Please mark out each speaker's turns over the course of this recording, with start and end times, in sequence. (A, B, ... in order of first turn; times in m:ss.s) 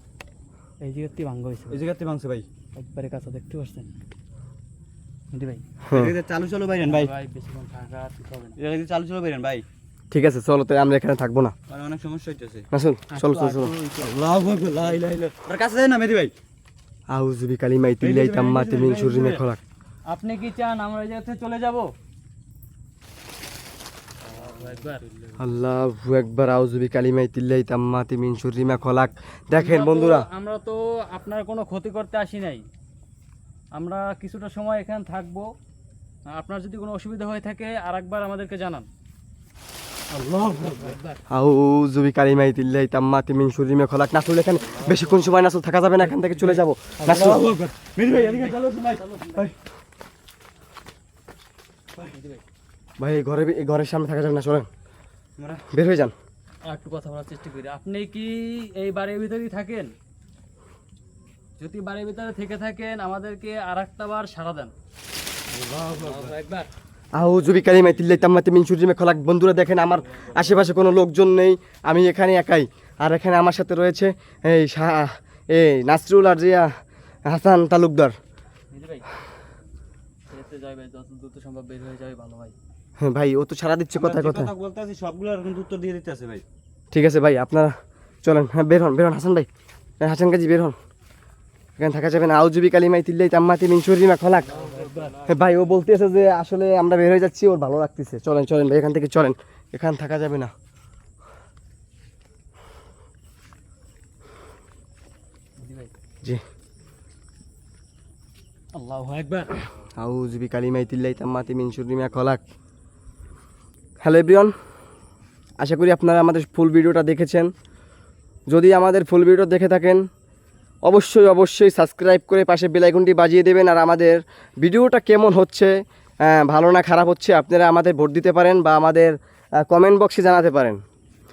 0:00.8-0:01.8 A
0:01.7-0:02.5 B
0:02.8-0:03.9 A
0:05.3-0:05.6 A
0:05.8-0:06.2 C
0:05.9-0:07.1 B
0:06.8-0:08.6 A
0:08.6-0:09.6 B
0:10.1-0:11.5 C
0:11.7-0:12.7 B
0:12.7-0:13.7 C
0:13.1-0:15.0 A
0:14.0-0:16.3 B
0:17.1-0:19.6 C
0:18.0-0:19.5 B
0:20.1-0:21.9 A
0:24.2-0:25.5 B
0:24.3-0:25.0 A
0:25.4-0:30.3 C
0:29.5-0:32.6 A
0:33.8-0:35.5 A
0:36.3-0:38.9 A
0:40.1-0:41.0 B
0:40.6-0:41.2 A
0:41.3-0:47.4 C
0:44.6-0:45.3 B
0:46.1-0:49.6 B
0:48.1-0:49.5 A
0:52.0-0:52.4 A
0:53.0-0:54.7 C
0:55.4-0:55.6 B
0:55.7-0:56.1 C
0:56.6-0:59.9 A
1:01.6-1:04.7 A
1:05.5-1:06.4 B
1:05.9-1:06.7 A
1:07.1-1:16.7 C
1:07.4-1:08.3 B
1:10.0-1:10.7 B
1:17.3-1:18.1 C
1:18.7-1:19.1 A
1:20.3-1:22.6 A
1:23.0-1:24.5 C
1:24.0-1:26.4 B
1:26.9-1:27.7 C
1:28.2-1:29.5 C
1:30.0-1:30.8 C
1:31.8-1:34.5 C
1:34.5-1:35.8 B
1:34.5-1:35.2 A
1:35.3-1:40.5 C
1:45.6-1:45.9 A
1:48.7-1:49.6 A
1:50.0-1:52.4 C
1:54.0-1:54.5 C
1:55.6-1:57.5 C
1:58.5-2:00.0 C
2:00.9-2:10.8 C